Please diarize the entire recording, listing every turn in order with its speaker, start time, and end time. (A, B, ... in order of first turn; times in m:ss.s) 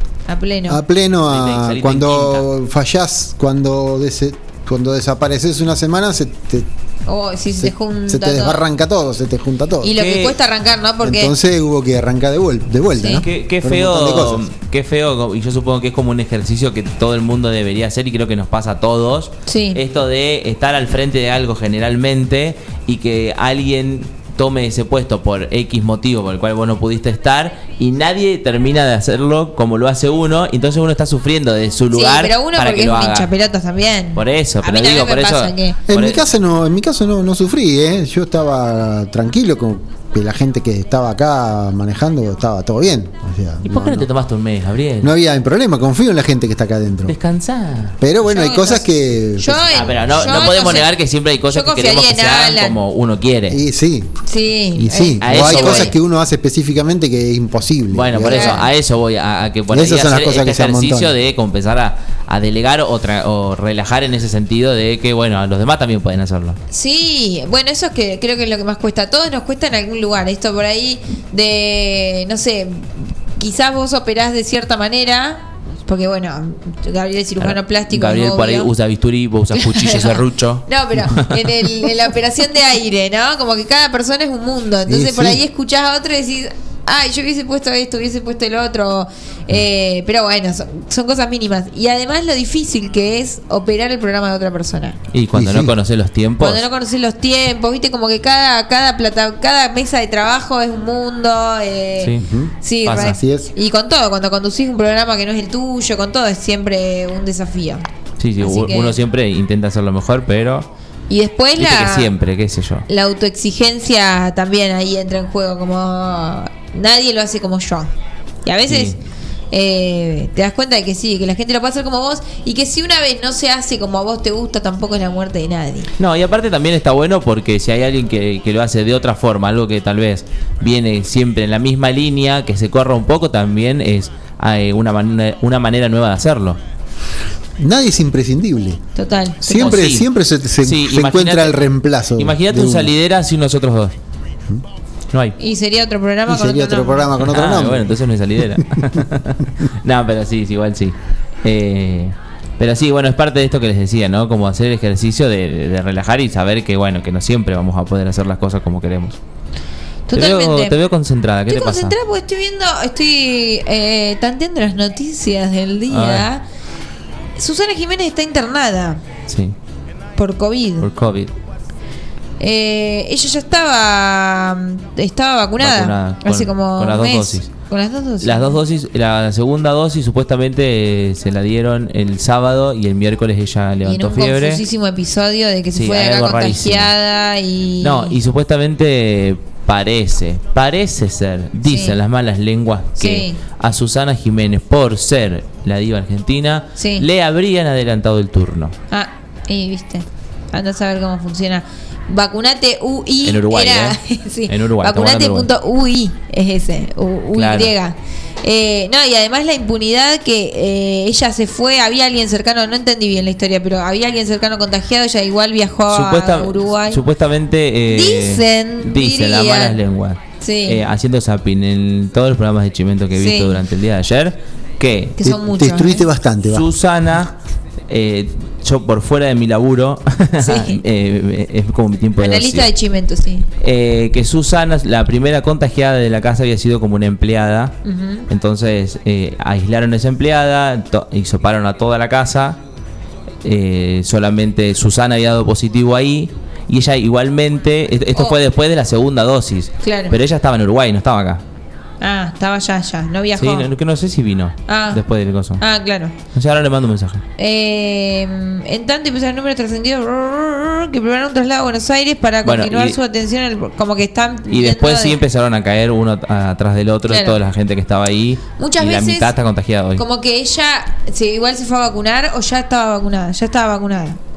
0:00.3-0:00.8 A
0:00.7-0:06.7 B
0:01.3-0:02.5 C
0:07.1-0:08.6 A
0:07.6-0:10.0 B
0:09.8-0:11.3 A
0:10.0-0:10.4 C
0:11.0-0:14.4 B
0:13.0-0:13.2 A
0:13.2-0:33.3 C
0:19.5-0:19.8 A
0:31.9-0:35.8 A
0:34.1-0:36.2 C
0:35.9-0:44.1 B
0:43.6-0:45.1 C
0:45.0-0:47.1 B
0:47.1-0:47.9 C
0:48.0-0:49.7 B
0:48.2-0:50.9 A
0:49.7-0:53.6 C
0:51.5-0:52.8 A
0:53.5-0:54.1 B
0:54.3-0:55.9 A
0:54.8-0:58.6 B
0:55.2-0:55.9 C
0:57.9-1:06.6 C
0:58.3-0:58.6 A
0:59.7-1:01.1 B
1:06.7-1:18.7 A
1:17.4-1:21.8 C
1:19.5-1:35.0 A
1:24.9-1:25.4 B
1:35.1-1:36.6 C
1:35.3-1:35.7 B
1:36.4-1:42.1 A
1:42.0-1:42.3 C
1:42.2-1:43.5 B
1:42.6-1:47.8 A
1:42.8-1:43.2 C
1:48.2-1:50.7 C
1:48.4-1:48.9 A
1:51.1-1:52.1 A
1:51.6-1:52.9 C
1:52.9-1:57.9 A
1:58.4-1:58.9 A
1:58.6-1:59.0 C
1:59.5-2:05.9 A
2:06.0-2:16.6 C
2:17.6-2:18.8 B
2:19.0-2:19.8 A
2:19.4-2:22.9 B
2:19.5-2:20.1 C
2:20.6-2:21.6 C
2:22.2-2:23.9 C
2:25.4-2:27.0 A
2:26.3-2:27.9 B
2:27.2-2:39.2 C
2:40.1-2:40.8 A
2:40.1-2:42.0 C
2:41.5-2:46.4 A
2:45.9-2:46.3 C
2:47.4-2:49.0 A
2:49.3-2:49.5 C
2:50.2-2:50.9 A
2:50.8-2:51.3 C
2:52.4-2:58.6 A
2:55.6-2:57.5 C
2:58.2-3:04.6 C
3:03.8-3:08.2 A
3:05.7-3:06.9 C
3:07.8-3:18.7 C
3:11.6-3:12.0 A
3:13.0-3:13.4 A
3:16.8-3:17.0 A
3:18.9-3:37.0 A
3:23.2-3:25.5 C
3:27.3-3:27.7 C
3:35.9-3:45.2 C
3:37.9-3:39.8 A
3:40.4-3:40.8 A
3:43.2-3:43.6 A
3:45.2-3:46.0 A
3:45.2-3:46.6 B
3:46.5-3:47.3 C
3:47.9-3:52.7 C
3:50.4-3:50.8 A
3:52.2-3:53.4 A
3:53.6-3:57.8 C
3:57.8-3:58.2 A
3:58.3-4:02.6 C
4:03.4-4:11.4 C
4:09.8-4:10.1 A
4:12.0-4:13.7 A
4:13.4-4:15.6 C
4:14.7-4:15.0 A
4:15.6-4:16.1 A
4:16.3-4:17.2 C
4:17.4-4:25.2 A
4:22.4-4:23.0 C
4:24.5-4:30.0 C
4:27.1-4:27.4 A
4:28.6-4:29.3 A
4:30.0-4:34.2 A